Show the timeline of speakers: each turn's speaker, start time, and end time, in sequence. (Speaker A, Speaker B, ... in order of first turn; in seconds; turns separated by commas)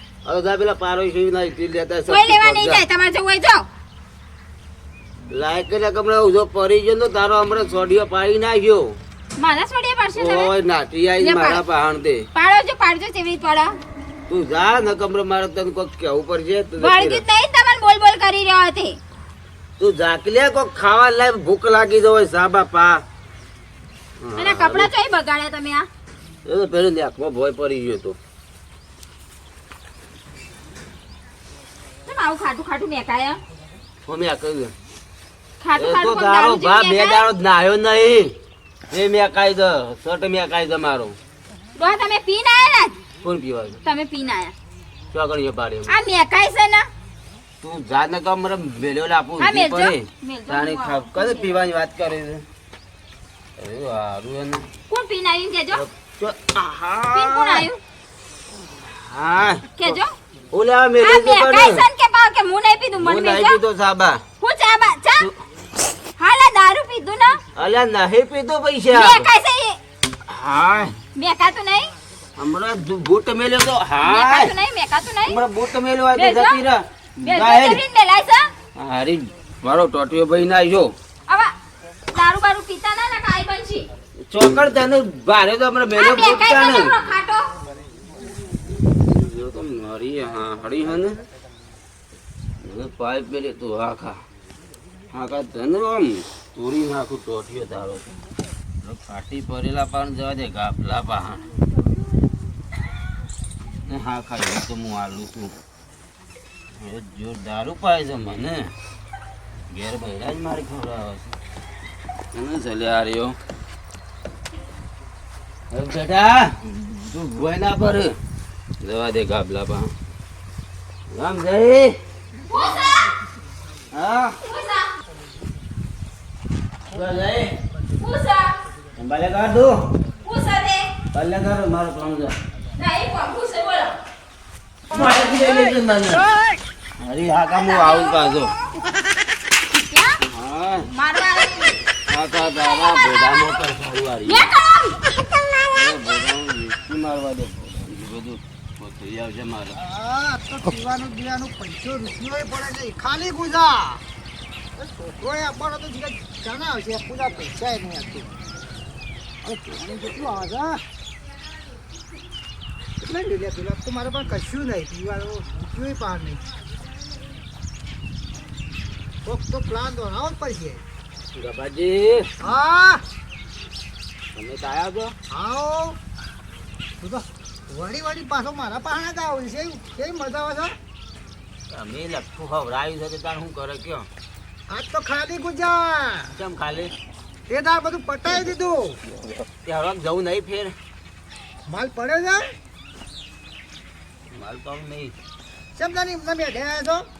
Speaker A: 0.3-2.8, Speaker B: 2.1-3.7, Speaker A: 5.3-9.0, Speaker B: 9.4-10.5, Speaker A: 10.2-12.3, Speaker B: 11.2-11.6, Speaker B: 12.3-13.7, Speaker A: 14.3-17.2, Speaker B: 16.8-19.0, Speaker A: 19.8-23.0, Speaker A: 24.2-24.9, Speaker B: 24.4-25.9, Speaker A: 26.4-28.2, Speaker B: 32.1-33.4, Speaker A: 34.1-34.7, Speaker B: 35.6-37.2, Speaker A: 35.8-38.4, Speaker A: 38.9-41.2, Speaker B: 41.8-43.0, Speaker A: 43.2-43.8, Speaker B: 43.9-44.5, Speaker A: 45.1-45.9, Speaker B: 45.9-46.9, Speaker A: 47.6-52.5, Speaker B: 49.4-51.6, Speaker A: 53.6-54.7, Speaker B: 54.9-55.8, Speaker A: 55.7-57.7, Speaker B: 57.1-57.8, Speaker A: 58.7-60.0, Speaker B: 59.8-60.1, Speaker A: 60.5-61.9, Speaker B: 61.0-63.6, Speaker A: 63.0-64.2, Speaker B: 64.4-65.3, Speaker B: 66.2-67.4, Speaker A: 67.5-69.3, Speaker B: 68.9-69.8, Speaker A: 70.3-71.0, Speaker B: 71.2-71.9, Speaker A: 72.4-74.5, Speaker B: 74.0-75.4, Speaker A: 75.3-77.8, Speaker B: 76.2-76.6, Speaker B: 77.2-78.5, Speaker A: 78.8-80.9, Speaker B: 82.1-83.9, Speaker A: 84.2-87.0, Speaker B: 86.0-87.5, Speaker A: 89.0-91.2, Speaker A: 92.6-94.2, Speaker A: 95.1-98.2, Speaker A: 98.8-101.5, Speaker A: 103.8-105.6, Speaker A: 106.7-108.7, Speaker A: 109.7-111.4, Speaker A: 112.3-113.4, Speaker A: 115.7-118.2, Speaker A: 118.8-119.9, Speaker A: 121.1-122.0, Speaker B: 122.5-123.1, Speaker A: 123.9-124.4, Speaker B: 124.4-124.9, Speaker A: 126.9-127.6, Speaker B: 128.0-128.5, Speaker A: 129.0-129.8, Speaker B: 130.2-130.9, Speaker A: 131.1-132.3, Speaker B: 132.8-134.0, Speaker A: 134.9-136.2, Speaker A: 137.0-138.5, Speaker B: 137.5-138.2, Speaker B: 139.7-140.2, Speaker A: 140.2-140.9, Speaker B: 140.9-141.8, Speaker A: 142.1-144.5, Speaker B: 144.3-145.1, Speaker A: 145.7-149.8, Speaker C: 149.8-154.0, Speaker C: 154.8-158.3, Speaker C: 159.4-160.8, Speaker C: 163.0-166.4, Speaker C: 169.2-170.8, Speaker A: 171.3-172.3, Speaker C: 172.4-173.0, Speaker A: 174.3-175.2, Speaker C: 175.3-176.0, Speaker C: 177.0-180.8, Speaker A: 181.7-184.1, Speaker C: 184.7-186.3, Speaker A: 186.3-186.9, Speaker C: 187.5-189.0, Speaker A: 189.2-190.8, Speaker C: 191.7-192.5, Speaker A: 194.3-195.1, Speaker C: 195.8-197.1